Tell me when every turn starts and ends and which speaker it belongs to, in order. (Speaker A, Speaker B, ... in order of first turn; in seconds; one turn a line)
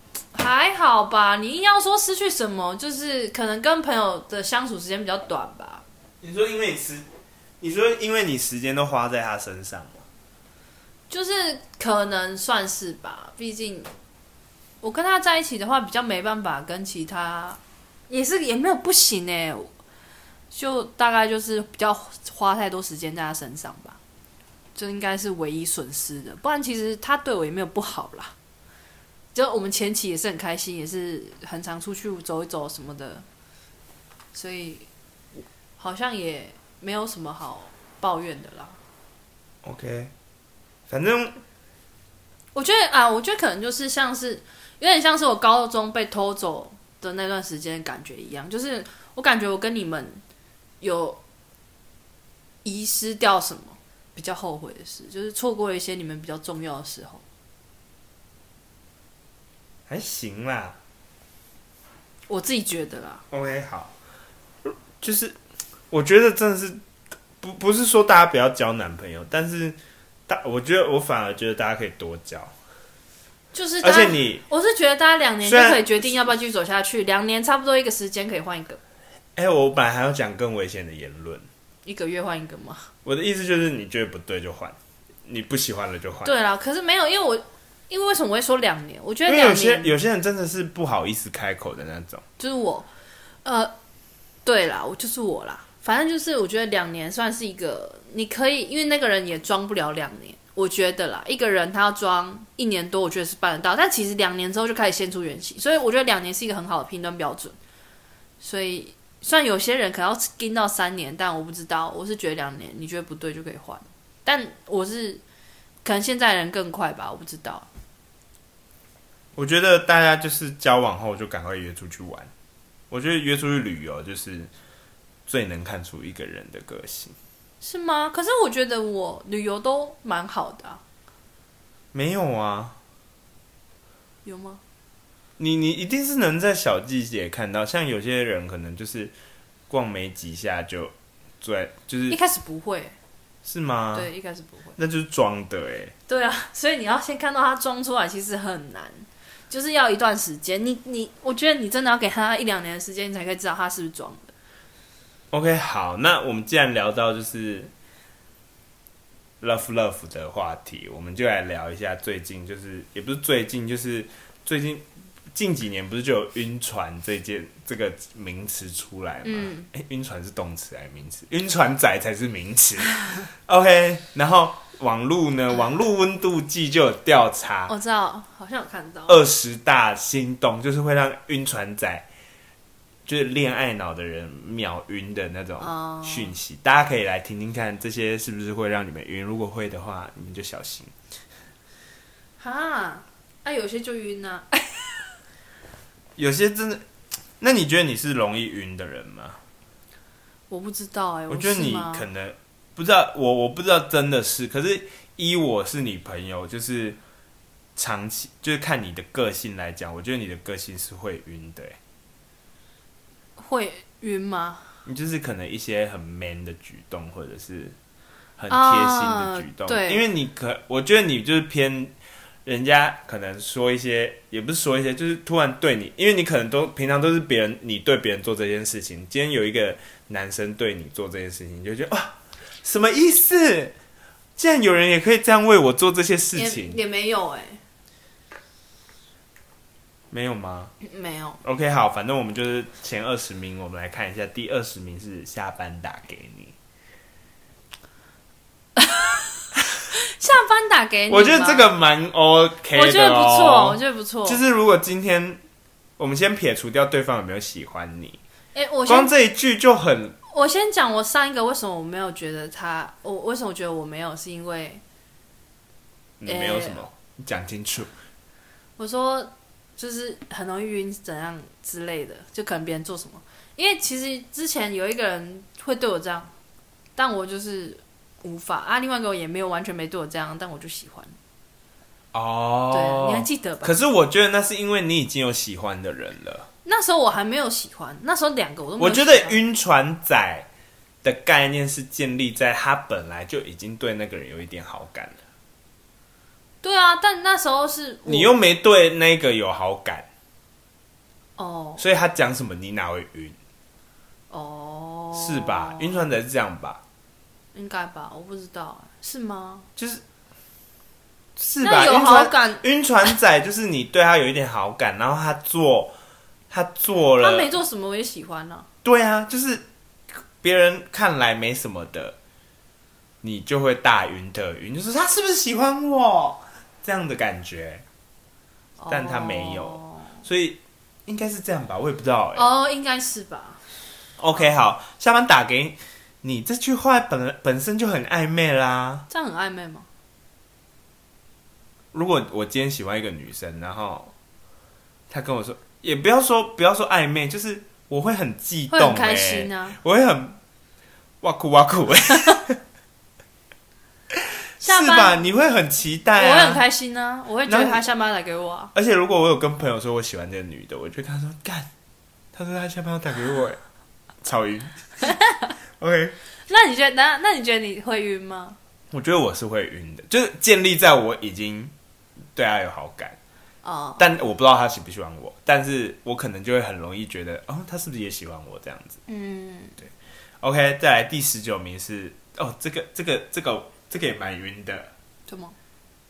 Speaker A: 0.3-5.8
Speaker B: 6.2-7.0
Speaker B: 7.6-10.0
Speaker A: 11.1-13.9
Speaker A: 14.8-19.7
Speaker A: 20.5-24.0
Speaker A: 24.7-28.3
Speaker A: 29.3-33.2
Speaker A: 34.3-34.9
Speaker A: 35.8-38.8
Speaker B: 39.6-40.1
Speaker B: 40.9-41.4
Speaker A: 42.5-50.2
Speaker A: 50.8-51.2
Speaker A: 52.6-57.2
Speaker B: 59.9-60.8
Speaker A: 62.3-63.2
Speaker B: 63.3-63.9
Speaker B: 64.6-65.4
Speaker B: 65.9-66.8
Speaker B: 67.4-72.5
Speaker A: 73.5-78.8
Speaker B: 73.8-74.4
Speaker B: 75.4-76.3
Speaker B: 79.3-81.5
Speaker A: 81.8-82.9
Speaker B: 83.0-86.3
Speaker A: 86.2-89.9
Speaker B: 89.2-92.2
Speaker A: 92.4-92.9
Speaker A: 93.4-93.7
Speaker A: 94.4-107.5
Speaker A: 108.4-115.2
Speaker A: 115.8-117.7
Speaker B: 119.3-122.3
Speaker B: 122.9-124.5
Speaker B: 125.3-127.2
Speaker A: 127.6-130.8
Speaker B: 131.9-132.8
Speaker A: 134.2-134.6
Speaker B: 135.4-139.1
Speaker B: 139.7-142.2
Speaker A: 142.1-142.9
Speaker B: 143.4-144.1
Speaker A: 143.9-144.8
Speaker B: 144.8-145.9
Speaker A: 146.1-154.3
Speaker B: 155.3-157.7
Speaker B: 159.4-177.7
Speaker A: 169.2-169.7
Speaker A: 177.7-179.2
Speaker B: 179.1-182.1
Speaker B: 183.1-190.9
Speaker A: 185.6-186.3
Speaker A: 192.4-195.0
Speaker B: 196.2-196.8
Speaker B: 197.4-199.4
Speaker A: 200.5-202.1
Speaker B: 201.3-207.0
Speaker B: 207.8-211.8
Speaker A: 213.4-214.7
Speaker B: 214.8-217.8
Speaker B: 218.4-233.7
Speaker A: 218.5-220.0
Speaker B: 234.4-236.8
Speaker A: 236.3-237.6
Speaker B: 240.1-240.7
Speaker A: 240.8-241.4
Speaker B: 241.4-246.5
Speaker A: 248.8-249.2
Speaker A: 249.9-251.7
Speaker B: 251.1-255.4
Speaker A: 252.7-254.4
Speaker B: 256.0-258.2
Speaker A: 258.5-259.1
Speaker B: 258.9-260.2
Speaker A: 260.3-264.8
Speaker B: 266.2-267.9
Speaker A: 266.2-266.8
Speaker A: 268.8-276.3
Speaker A: 276.9-281.1
Speaker B: 282.1-286.5
Speaker A: 282.7-283.7
Speaker A: 286.6-289.4
Speaker B: 288.8-290.5
Speaker B: 291.0-295.2
Speaker A: 296.6-298.3
Speaker B: 298.1-300.1
Speaker A: 301.4-301.8
Speaker B: 301.8-303.4
Speaker A: 304.3-306.0
Speaker B: 305.1-306.8
Speaker A: 307.5-309.7
Speaker B: 309.8-310.0
Speaker B: 311.4-315.9
Speaker A: 311.6-312.6
Speaker B: 316.5-317.5
Speaker A: 317.2-318.7
Speaker B: 318.8-319.6
Speaker B: 320.4-322.1
Speaker B: 323.2-327.8
Speaker A: 328.8-330.2
Speaker B: 328.9-332.5
Speaker A: 332.3-333.6
Speaker B: 334.2-339.1
Speaker A: 339.1-339.9
Speaker B: 341.9-344.1
Speaker B: 345.1-350.4
Speaker A: 348.7-349.8
Speaker B: 351.2-352.6
Speaker B: 354.1-356.6
Speaker A: 354.6-355.2
Speaker A: 356.1-358.7
Speaker B: 357.5-357.8
Speaker B: 358.7-361.7
Speaker B: 362.3-363.6
Speaker B: 364.2-364.8
Speaker A: 365.1-365.5
Speaker B: 365.8-366.2
Speaker A: 366.5-368.6
Speaker B: 368.9-371.7
Speaker B: 372.3-373.2
Speaker A: 373.6-374.1
Speaker B: 374.0-379.0
Speaker A: 379.1-379.8
Speaker B: 379.8-384.9
Speaker A: 385.3-385.5